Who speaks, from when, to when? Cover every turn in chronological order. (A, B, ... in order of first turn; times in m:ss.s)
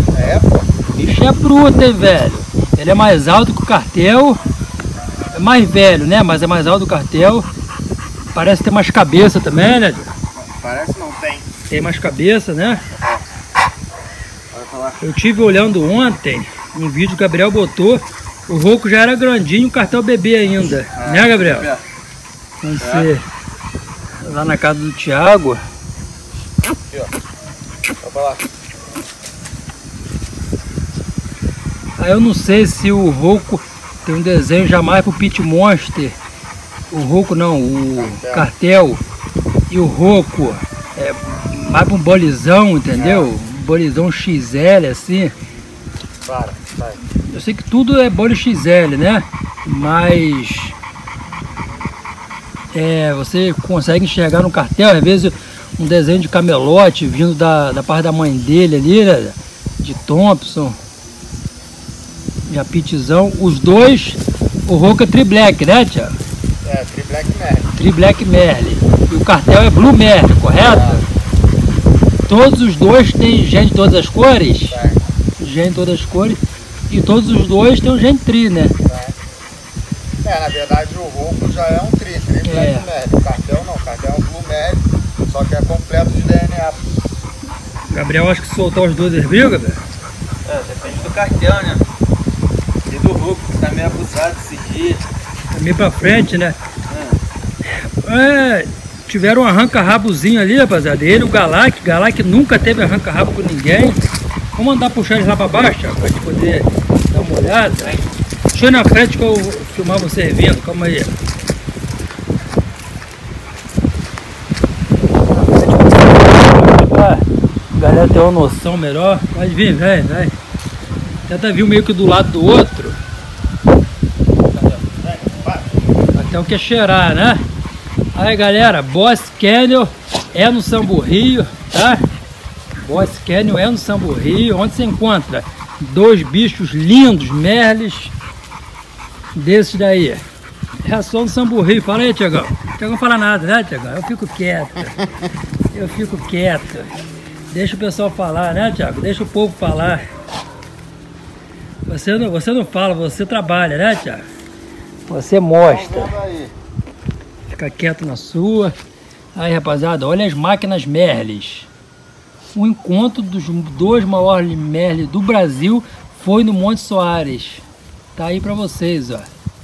0:00.1-0:00.7 A
0:01.0-0:04.4 B
0:05.3-0:07.5 B
0:08.3-0:10.1 B
0:10.3-0:11.5 A
0:11.7-0:12.8 B
0:12.9-0:13.2 A
0:14.5-0:15.0 A
0:15.0-0:21.7 B
0:21.0-0:21.8 C
0:22.6-0:23.2 B
0:22.8-0:23.1 C
0:24.2-0:25.6 B
0:28.0-0:28.4 A
0:32.0-0:36.2 B
0:36.9-0:39.0 B
0:37.9-0:38.5 A
0:39.7-0:45.3 B
0:42.9-0:43.3 A
0:46.2-0:47.0 A
0:47.2-0:50.8 B
0:52.7-1:00.8 B
1:02.5-1:06.2 B
1:06.6-1:07.7 A
1:07.7-1:11.0 B
1:10.6-1:11.0 A
1:12.3-1:14.8 B
1:14.7-1:15.0 A
1:15.4-1:18.7 B
1:18.8-1:19.2 A
1:20.2-1:26.8 A
1:22.4-1:22.9 B
1:27.9-1:29.8 B
1:30.4-1:31.8 C
1:32.9-1:35.0 C
1:35.5-1:36.6 B
1:36.9-1:37.2 C
1:37.7-1:44.0 B
1:44.5-1:48.0 B
1:48.5-1:51.1 B
1:55.4-2:00.3 B
2:01.3-2:03.0 B
2:04.5-2:04.8 C
2:04.9-2:05.7 A
2:06.1-2:07.4 B
2:08.1-2:12.0 B
2:12.8-2:18.1 B
2:19.3-2:20.2 B
2:20.8-2:25.0 B
2:25.7-2:26.9 B
2:27.5-2:30.0 B
2:31.8-2:34.2 B
2:35.1-2:36.1 B
2:35.6-2:36.5 A
2:37.5-2:38.7 B
2:39.3-2:41.7 B
2:42.5-2:47.6 B
2:48.2-2:49.3 B